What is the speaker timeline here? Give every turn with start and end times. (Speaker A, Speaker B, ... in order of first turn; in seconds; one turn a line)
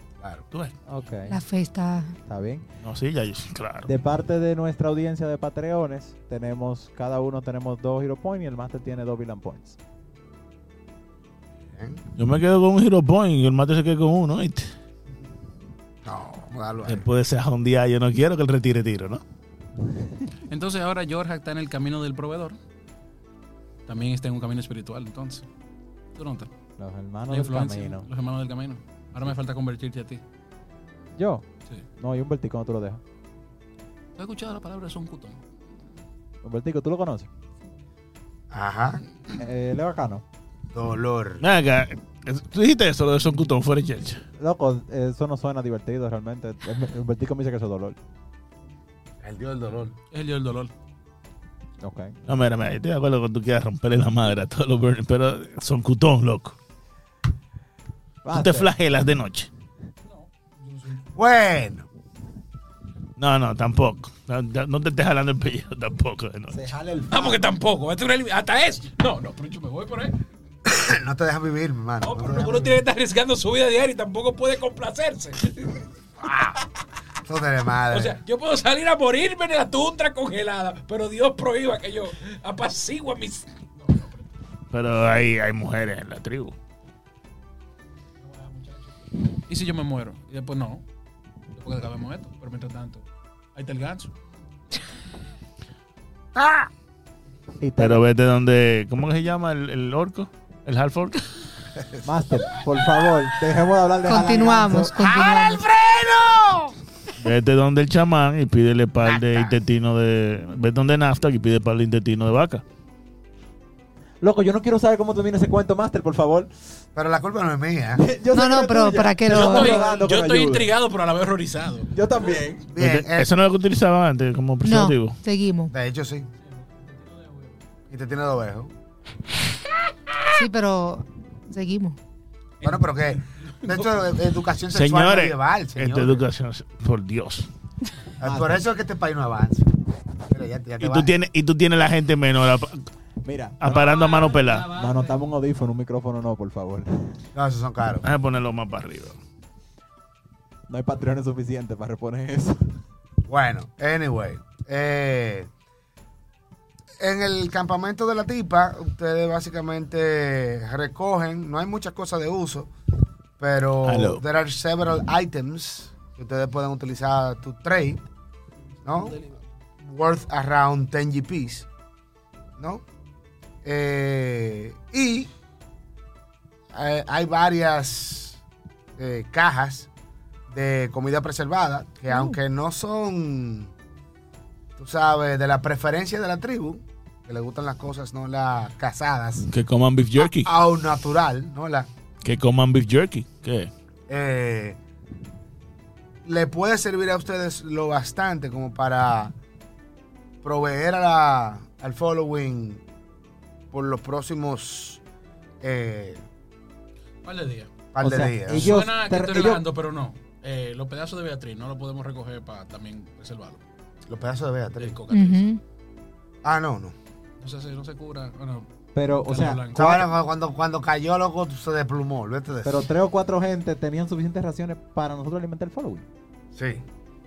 Speaker A: 0.2-0.4
Speaker B: 0.8-1.4
Speaker C: 1.3-2.2
Speaker B: 2.3-2.6
Speaker D: 2.8-3.9
Speaker B: 3.9-9.8
Speaker A: 11.7-12.0
Speaker D: 12.2-14.7
Speaker A: 16.0-17.0
Speaker D: 16.9-19.2
Speaker E: 20.5-22.6
Speaker E: 23.9-25.5
Speaker E: 26.1-26.5
Speaker B: 26.8-28.1
Speaker E: 27.3-30.2
Speaker B: 31.1-31.4
Speaker B: 32.0-33.0
Speaker E: 34.2-35.4
Speaker B: 36.4-37.3
Speaker A: 38.5-39.0
Speaker B: 39.4-40.2
Speaker A: 40.7-41.5
Speaker D: 41.4-44.2
Speaker B: 44.4-48.0
Speaker A: 49.2-50.0
Speaker E: 50.1-50.7
Speaker B: 51.8-52.2
Speaker D: 52.3-56.6
Speaker B: 58.2-58.7
Speaker D: 58.3-59.5
Speaker E: 60.0-61.0
Speaker A: 61.1-61.9
Speaker D: 63.2-66.7
Speaker B: 66.5-67.4
Speaker E: 67.1-70.2
Speaker A: 70.6-72.7
Speaker E: 72.0-75.9
Speaker A: 76.2-76.5
Speaker A: 77.2-78.2
Speaker E: 77.9-84.3
Speaker D: 84.7-86.5
Speaker E: 88.2-90.8
Speaker E: 91.5-94.1
Speaker A: 96.3-96.7
Speaker B: 97.6-98.0
Speaker D: 97.8-101.2
Speaker B: 102.0-104.9
Speaker C: 104.1-105.6
Speaker A: 105.0-106.7
Speaker D: 107.2-112.6
Speaker A: 109.0-109.5
Speaker B: 114.2-116.5
Speaker A: 117.0-118.0
Speaker B: 118.0-120.7
Speaker C: 118.3-119.8
Speaker E: 119.3-121.9
Speaker B: 121.9-122.7
Speaker A: 122.7-123.3
Speaker D: 122.8-125.2
Speaker C: 124.6-125.7
Speaker A: 125.7-126.3
Speaker E: 126.4-127.5
Speaker A: 127.9-128.7
Speaker C: 130.3-132.0
Speaker E: 132.6-134.0
Speaker A: 132.6-136.2
Speaker D: 134.7-137.5
Speaker A: 138.2-141.1
Speaker B: 138.2-138.6
Speaker D: 140.8-142.8
Speaker B: 143.2-143.8
Speaker D: 143.6-144.7
Speaker B: 144.6-147.2
Speaker A: 147.3-148.1
Speaker D: 148.0-149.2
Speaker B: 150.7-152.7
Speaker A: 153.3-155.5
Speaker A: 157.0-162.7
Speaker A: 163.4-168.1
Speaker D: 163.8-164.2
Speaker A: 168.8-169.2
Speaker E: 168.9-169.4
Speaker A: 169.8-171.7
Speaker A: 172.6-172.8
Speaker A: 173.6-175.3
Speaker A: 176.7-178.4
Speaker A: 179.0-179.9
Speaker A: 180.5-183.7
Speaker A: 184.8-189.5
Speaker D: 189.5-190.5
Speaker A: 190.2-191.9
Speaker D: 192.2-193.7
Speaker A: 194.1-194.8
Speaker A: 196.2-199.3
Speaker A: 200.4-202.8
Speaker A: 203.7-205.0
Speaker A: 205.6-206.2
Speaker E: 207.2-207.7
Speaker A: 207.9-208.8
Speaker B: 208.0-209.6
Speaker E: 208.5-213.6
Speaker A: 214.1-215.0
Speaker E: 214.8-215.4
Speaker C: 215.1-215.6
Speaker A: 216.4-216.9
Speaker E: 217.4-218.7
Speaker B: 218.9-219.9
Speaker E: 219.2-220.0
Speaker A: 219.7-222.9
Speaker B: 222.6-226.1
Speaker A: 226.5-226.8